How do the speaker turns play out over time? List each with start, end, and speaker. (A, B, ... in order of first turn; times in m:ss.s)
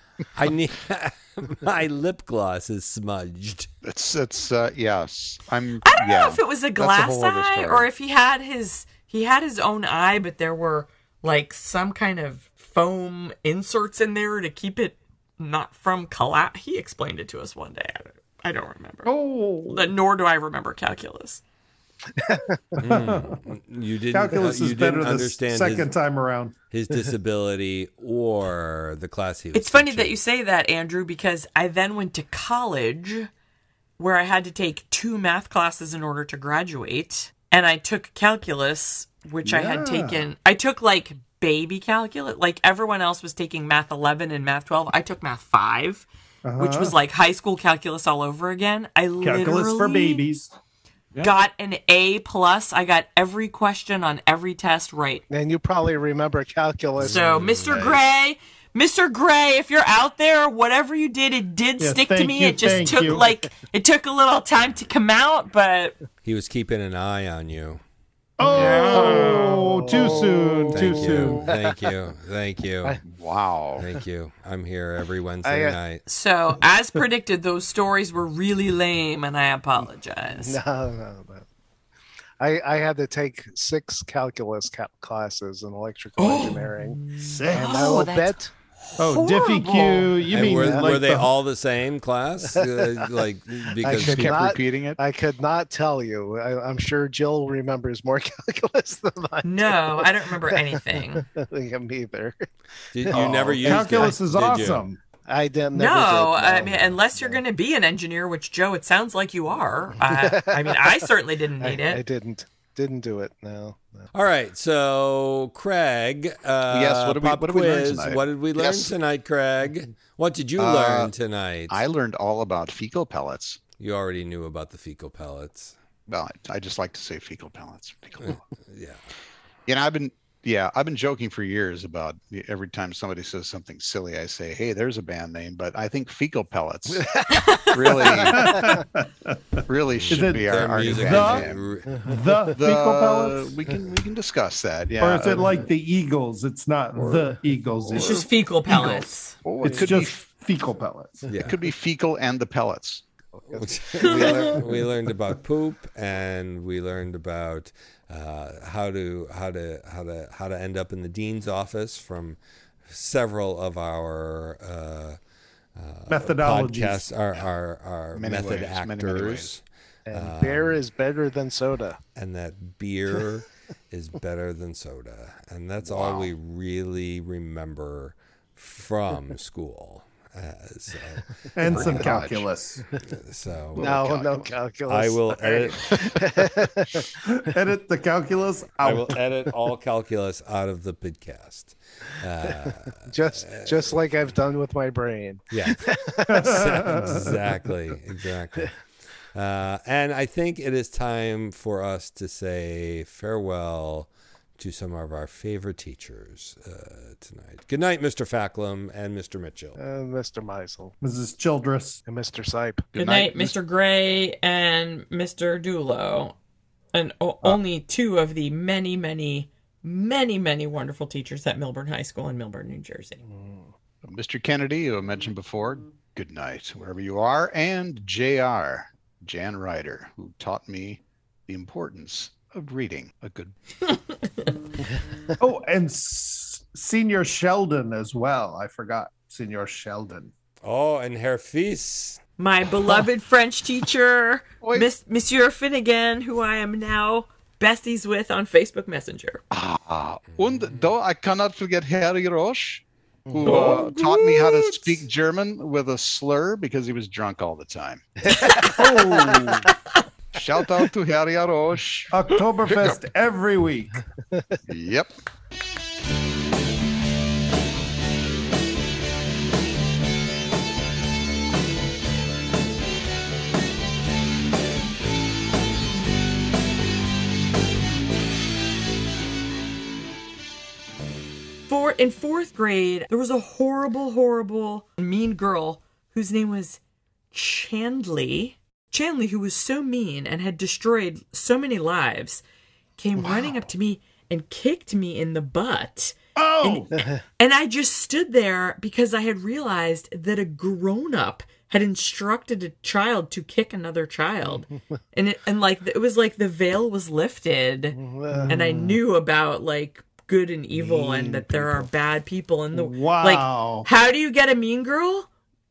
0:00.4-0:03.7 A
0:03.8-0:07.9 B
0:05.8-0:19.1 C
0:19.0-0:19.9 D
0:19.7-0:21.4 C
0:22.1-0:22.6 E
0:22.8-0:25.9 A
0:22.8-0:23.4 D
0:24.1-0:26.6 D
0:26.7-0:30.2 A
0:29.5-0:33.3 C
0:34.0-0:46.1 C
0:39.4-0:40.2 D
0:46.4-0:47.0 D
0:46.6-0:50.2 C
0:49.2-0:50.5 D
0:51.2-0:55.2 C
0:55.3-0:57.2 E
0:57.0-0:57.8 A
0:57.0-1:06.0 C
0:57.7-0:58.0 B
1:01.8-1:03.3 D
1:06.2-1:07.8 A
1:08.4-1:11.5 D
1:08.4-1:09.6 C
1:08.5-1:09.5 B
1:08.6-1:10.8 E
1:10.7-1:13.0 A
1:13.1-1:13.8 B
1:13.8-1:16.0 A
1:15.4-1:15.8 E
1:16.1-1:20.6 C
1:20.4-1:21.4 E
1:22.4-1:28.5 E
1:26.2-1:30.3 C
1:27.2-1:28.0 D
1:29.0-1:31.3 D
1:30.3-1:34.5 A
1:30.5-1:30.9 E
1:32.5-1:33.1 E
1:33.8-1:42.5 E
1:33.9-1:35.0 B
1:39.4-1:41.3 C
1:42.9-1:44.9 A
1:43.0-1:44.2 E
1:43.2-1:45.0 D
1:45.3-1:47.4 E
1:45.7-1:52.0 C
1:50.0-1:51.0 E
1:51.6-1:54.1 E
1:54.1-2:01.8 A
1:56.7-1:58.9 B
2:00.6-2:01.1 B
2:01.7-2:03.6 B
2:03.8-2:05.8 A
2:06.1-2:08.4 B
2:08.2-2:09.0 A
2:09.7-2:18.7 B
2:16.9-2:18.8 E
2:17.3-2:17.8 C
2:18.3-2:21.5 D
2:19.7-2:21.7 B
2:19.9-2:22.1 A
2:22.0-2:23.5 D
2:22.5-2:25.6 B
2:25.0-2:29.1 D
2:27.0-2:27.3 B
2:27.9-2:28.3 B
2:27.9-2:29.4 C
2:29.4-2:30.2 B
2:29.6-2:29.9 E
2:29.7-2:31.3 D
2:31.3-2:31.6 A
2:31.4-2:33.0 B
2:33.5-2:34.9 E
2:33.5-2:45.2 A
2:34.0-2:34.6 C
2:45.8-2:50.8 A
2:46.1-2:47.1 D
2:48.1-2:49.5 B
2:50.1-2:52.0 E
2:52.2-3:02.1 A
2:55.8-2:56.3 B
3:01.6-3:02.9 D
3:01.7-3:02.5 B
3:03.0-3:03.9 A
3:03.7-3:04.5 B
3:03.8-3:07.1 E
3:04.9-3:06.2 A
3:07.2-3:09.2 D
3:08.8-3:14.0 A
3:13.0-3:16.5 E
3:15.5-3:15.9 A
3:16.3-3:17.4 D
3:16.4-3:18.8 A
3:19.3-3:29.8 A
3:29.8-3:31.0 E
3:31.0-3:32.0 D
3:32.1-3:32.9 E
3:32.9-3:33.6 B
3:33.0-3:36.3 C
3:36.9-3:43.2 C
3:43.3-3:43.7 E
3:44.0-3:53.5 B
3:55.4-4:00.3 D
4:00.6-4:02.2 A
4:02.4-4:09.4 C
4:04.6-4:04.9 B
4:09.5-4:18.0 B
4:10.3-4:10.9 A
4:13.3-4:13.8 E
4:13.4-4:15.0 D
4:18.3-4:19.0 E
4:18.7-4:19.7 D
4:20.3-4:23.0 B
4:22.1-4:24.0 D
4:24.7-4:25.1 B
4:41.7-4:46.8 C
4:47.3-4:52.4 C
4:53.0-5:15.3 C
4:53.2-4:53.6 E
4:56.4-4:57.0 D
5:08.0-5:09.0 E
5:11.0-5:11.9 E
5:12.7-5:13.9 D